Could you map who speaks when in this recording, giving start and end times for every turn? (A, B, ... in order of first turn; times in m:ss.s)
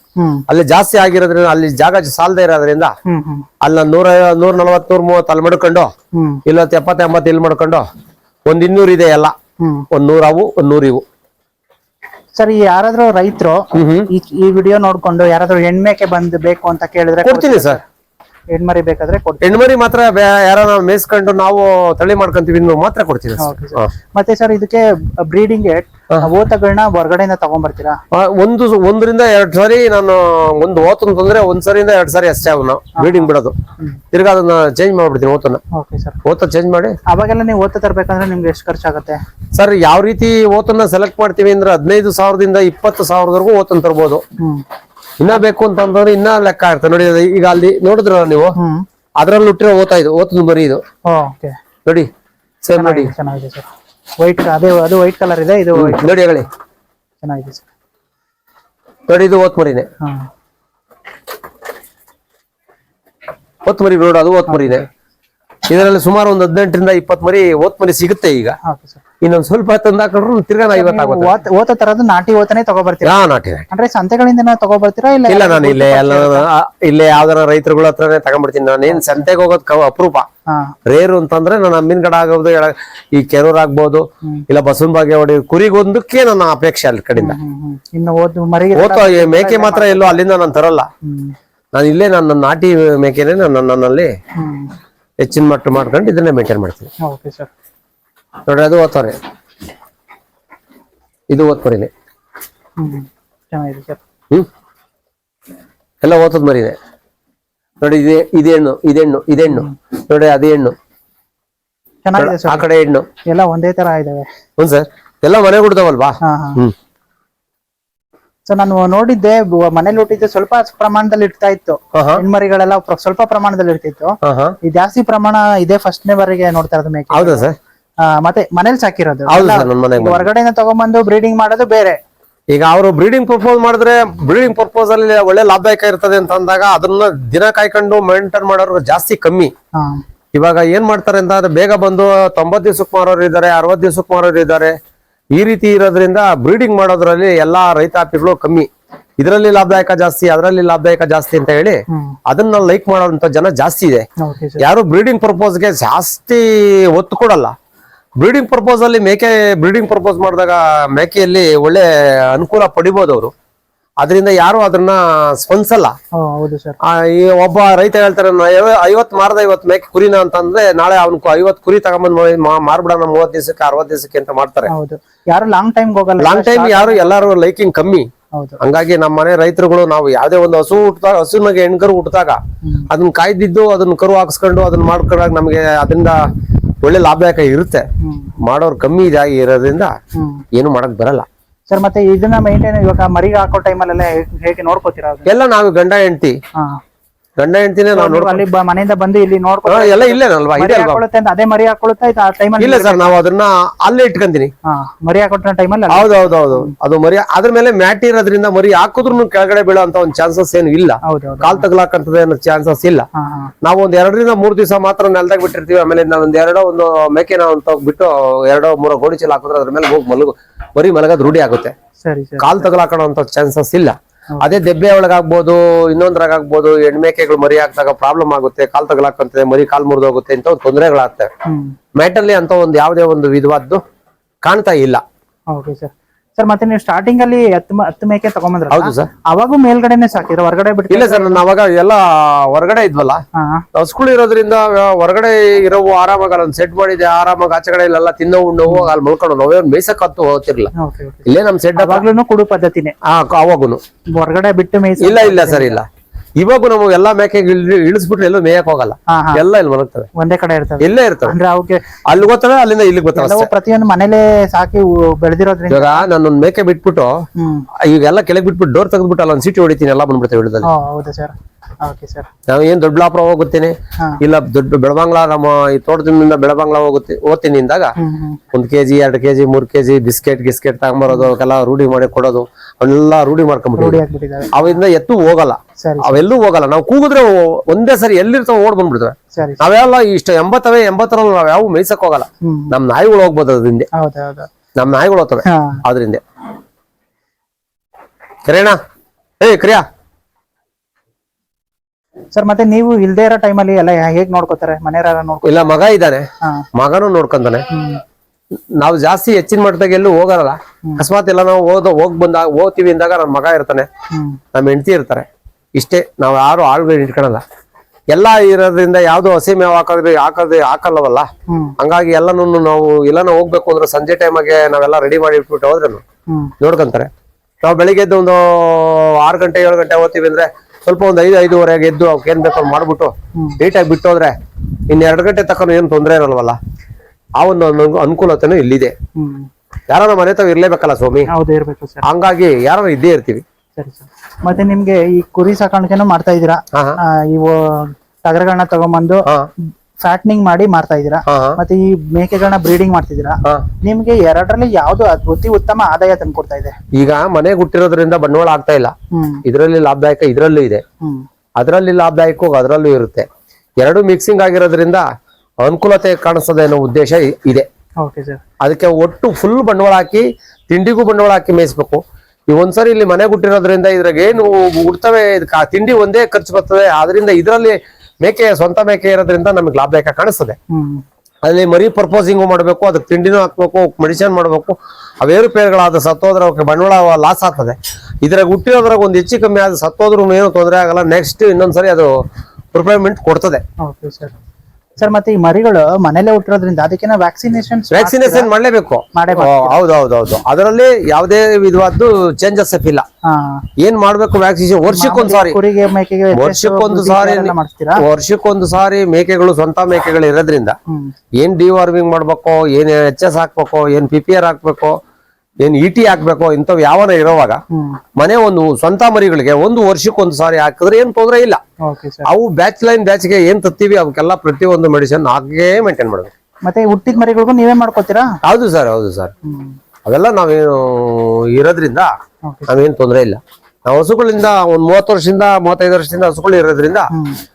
0:00.2-0:00.4 A
0:00.5-0:02.9 B
0:03.0-0:03.5 A
0:03.6-0:05.9 B
0:06.1-0:06.4 A
0:06.5-0:07.9 B
0:08.5-0:09.3 B
0:09.6-0:09.9 A
0:09.9-0:11.0 B
0:12.4-0:17.8 A
0:13.7-0:14.1 B
0:17.2-0:17.8 B
0:18.5-0:19.6 A
0:19.4-0:23.9 B
0:23.4-0:28.0 A
0:28.1-0:33.6 B
0:33.0-0:34.0 A
0:34.1-0:35.6 B
0:35.7-0:36.2 A
0:36.2-0:37.0 B
0:37.1-0:39.2 A
0:39.6-0:44.2 B
0:44.4-0:44.6 A
0:45.2-0:48.6 B
0:48.6-0:48.8 A
0:49.2-0:50.8 B
0:51.1-0:51.6 A
0:52.6-0:53.1 B
0:52.8-0:53.7 A
0:54.2-0:56.1 A
0:55.8-0:56.5 B
0:57.2-0:57.7 A
0:59.1-0:59.9 B
1:00.0-1:00.3 A
1:03.7-1:04.9 B
1:04.5-1:04.8 A
1:05.7-1:08.6 B
1:08.6-1:09.0 A
1:09.2-1:11.3 B
1:10.7-1:13.1 A
1:13.0-1:13.7 B
1:13.7-1:16.5 A
1:15.3-1:20.2 B
1:18.9-1:19.2 A
1:20.5-1:20.8 A
1:20.9-1:27.4 B
1:27.2-1:30.2 A
1:28.7-1:30.9 B
1:31.0-1:31.4 A
1:31.7-1:34.1 B
1:34.4-1:34.7 A
1:35.2-1:36.9 B
1:37.0-1:37.5 A
1:38.5-1:39.2 B
1:41.3-1:41.9 B
1:42.8-1:44.0 A
1:46.0-1:46.8 B
1:47.8-1:50.8 B
1:49.5-1:49.7 A
1:52.0-1:52.6 A
1:52.2-1:53.1 B
1:53.3-1:54.3 A
1:54.6-1:56.7 B
1:56.2-1:56.6 A
1:58.5-2:07.5 A
2:01.9-2:02.2 B
2:04.2-2:04.6 B
2:07.1-2:07.6 B
2:08.0-2:12.0 A
2:09.3-2:10.3 B
2:12.5-2:19.5 B
2:19.8-2:20.0 A
2:20.3-2:24.8 B
2:25.4-2:28.7 B
2:29.2-2:34.1 B
2:31.9-2:32.2 A
2:34.2-2:34.6 A
2:34.6-2:37.5 B
2:38.2-2:43.3 B
2:44.0-2:45.9 B
2:46.2-2:46.8 A
2:46.8-2:54.7 B
2:54.7-2:57.3 A
2:56.2-2:58.1 B
2:58.6-3:02.4 B
3:02.9-3:06.2 B
3:06.8-3:07.8 B
3:08.0-3:08.3 A
3:08.4-3:09.9 B
3:10.2-3:10.4 A
3:10.6-3:11.3 B
3:11.7-3:15.3 A
3:15.3-3:16.4 B
3:17.4-3:18.4 B
3:17.9-3:23.2 A
3:19.7-3:21.0 B
3:22.6-3:24.5 B
3:24.6-3:26.7 A
3:25.9-3:33.1 B
3:31.0-3:31.7 A
3:33.2-3:33.5 A
3:33.6-3:41.7 B
3:42.0-3:42.7 A
3:42.4-3:51.3 B
3:51.5-3:51.8 A
3:52.0-3:53.8 B
3:54.4-3:55.0 B
3:55.5-4:01.4 A
3:58.7-3:59.1 B
4:00.9-4:03.2 B
4:03.4-4:03.6 A
4:03.8-4:10.7 B
4:08.7-4:08.9 A
4:10.8-4:13.0 A
4:11.3-4:12.1 B
4:13.0-4:13.8 B
4:14.2-4:15.8 A
4:15.0-4:15.9 B
4:16.4-4:20.1 B
4:19.1-4:19.4 A
4:20.2-4:21.9 A
4:20.8-4:21.4 B
4:22.1-4:23.5 B
4:23.1-4:26.1 A
4:25.7-4:27.1 B
4:27.4-4:27.7 A
4:27.8-4:30.7 B
4:30.6-4:32.3 A
4:32.5-4:37.9 B
4:38.0-4:38.4 A
4:38.5-4:44.0 B
4:43.8-4:44.7 A
4:44.5-4:53.9 B
4:45.8-4:46.3 A
4:49.3-4:49.6 A
4:52.4-4:52.7 A
4:53.9-4:54.5 A
4:54.8-4:56.2 B
4:55.5-4:55.8 A
4:58.5-4:58.8 B
4:59.4-4:59.8 B
5:02.3-5:05.6 A
5:05.4-5:06.2 B
5:06.8-5:07.7 B
5:07.7-5:08.0 A
5:08.8-5:13.9 B
5:14.1-5:14.4 A
5:14.5-5:17.4 B
5:18.1-5:21.3 B
5:21.5-5:21.8 A
5:21.8-5:26.0 B
5:26.3-5:26.5 A
5:26.6-5:27.1 B
5:27.6-5:34.3 B
5:34.9-5:36.6 B
5:37.4-5:38.9 B
5:39.2-5:39.5 A
5:39.9-5:41.3 B
5:41.3-5:42.0 A
5:42.0-5:43.4 B
5:43.8-5:49.3 A
5:46.7-5:47.0 B
5:50.0-5:56.8 A
5:51.3-5:51.6 B
5:57.0-5:58.9 B
5:59.1-5:59.4 A
5:59.5-6:00.8 B
6:01.6-6:03.3 B
6:03.8-6:05.1 B
6:05.6-6:07.7 B
6:08.0-6:08.4 A
6:08.6-6:20.6 B
6:20.7-6:21.0 A
6:21.4-6:32.1 B
6:32.7-6:33.6 B
6:33.8-6:34.3 A
6:35.0-6:38.5 A
6:37.9-6:43.0 B
6:39.2-6:39.8 A
6:43.3-6:43.6 A
6:43.8-6:45.6 B
6:44.9-6:48.0 A
6:46.3-6:50.8 B
6:51.4-6:55.0 B
6:55.6-6:57.6 B
6:57.7-6:58.0 A
6:58.2-7:01.6 B
7:01.8-7:02.3 A
7:02.2-7:06.3 B
7:06.6-7:08.3 A
7:08.4-7:09.3 B
7:09.4-7:09.8 A
7:10.0-7:12.1 B
7:12.7-7:17.1 B
7:17.1-7:17.4 A